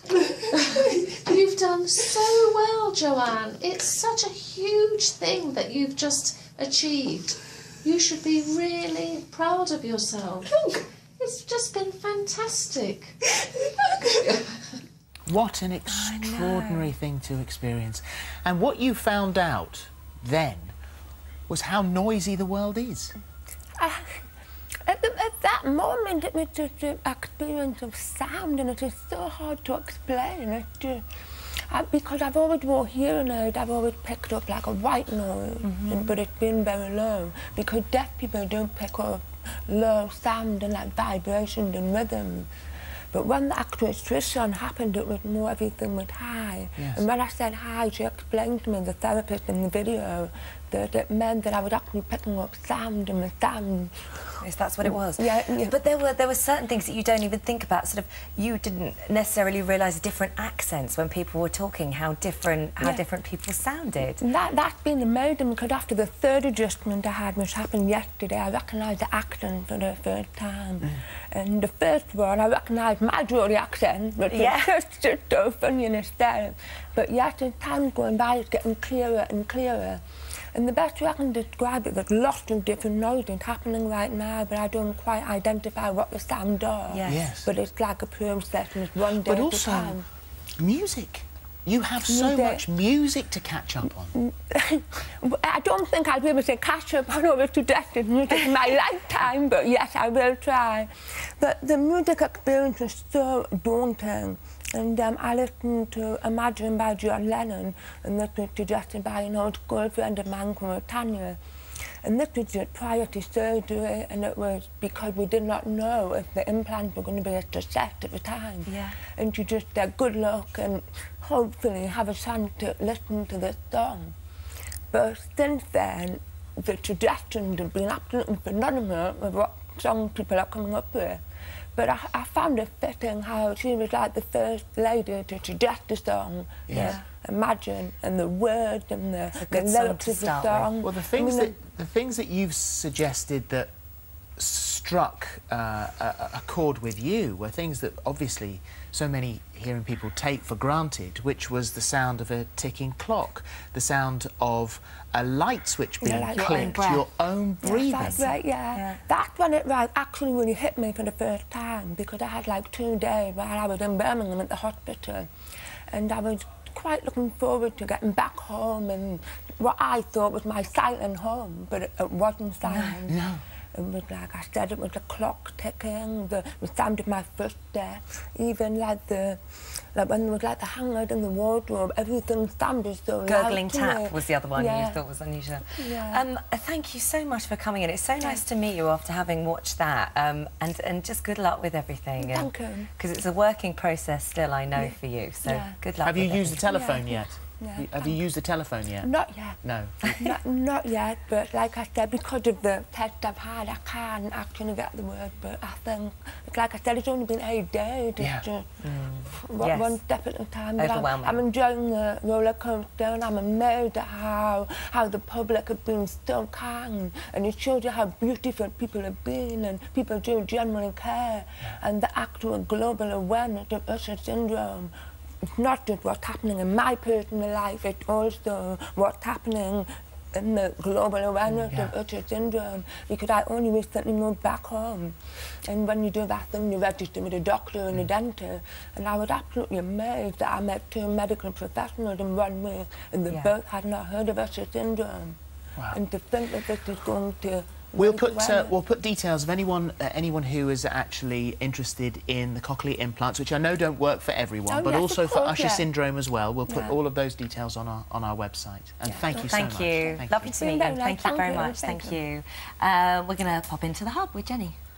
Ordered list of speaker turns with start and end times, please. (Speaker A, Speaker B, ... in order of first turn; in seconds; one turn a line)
Speaker A: 0.5-13.2
Speaker A: 13.8-14.7
Speaker B: 15.2-20.7
Speaker C: 15.9-16.9
Speaker B: 21.5-23.1
Speaker D: 23.8-24.2
Speaker D: 24.9-31.0
Speaker D: 31.7-42.5
Speaker C: 35.6-36.1
Speaker D: 43.1-55.7
Speaker B: 46.8-47.0
Speaker C: 54.4-64.2
Speaker D: 64.2-80.0
Speaker C: 74.3-74.7
Speaker D: 80.5-90.0
Speaker C: 86.9-87.2
Speaker B: 87.0-87.5
Speaker B: 89.2-90.0
Speaker B: 90.6-94.2
Speaker D: 92.0-92.6
Speaker D: 94.1-111.4
Speaker D: 112.0-124.1
Speaker C: 118.7-119.0
Speaker D: 124.9-131.2
Speaker D: 131.7-141.5
Speaker B: 136.7-137.0
Speaker C: 136.7-137.0
Speaker C: 139.3-140.7
Speaker B: 140.8-143.7
Speaker B: 144.4-158.3
Speaker D: 156.0-156.8
Speaker C: 156.3-157.0
Speaker D: 157.6-165.3
Speaker C: 158.1-159.0
Speaker D: 165.9-173.2
Speaker B: 173.1-173.4
Speaker D: 173.7-179.4
Speaker D: 179.9-185.0
Speaker C: 183.2-196.7
Speaker D: 185.7-186.2
Speaker D: 192.2-192.9
Speaker D: 195.4-195.8
Speaker B: 196.0-199.1
Speaker D: 196.7-198.2
Speaker D: 199.0-199.6
Speaker B: 199.6-200.3
Speaker D: 200.2-245.3
Speaker B: 208.2-208.4
Speaker C: 208.8-210.0
Speaker C: 210.8-211.4
Speaker D: 245.9-248.7
Speaker B: 247.9-260.5
Speaker D: 254.7-255.9
Speaker D: 256.6-256.9
Speaker D: 259.1-259.6
Speaker C: 259.3-264.8
Speaker D: 260.5-262.2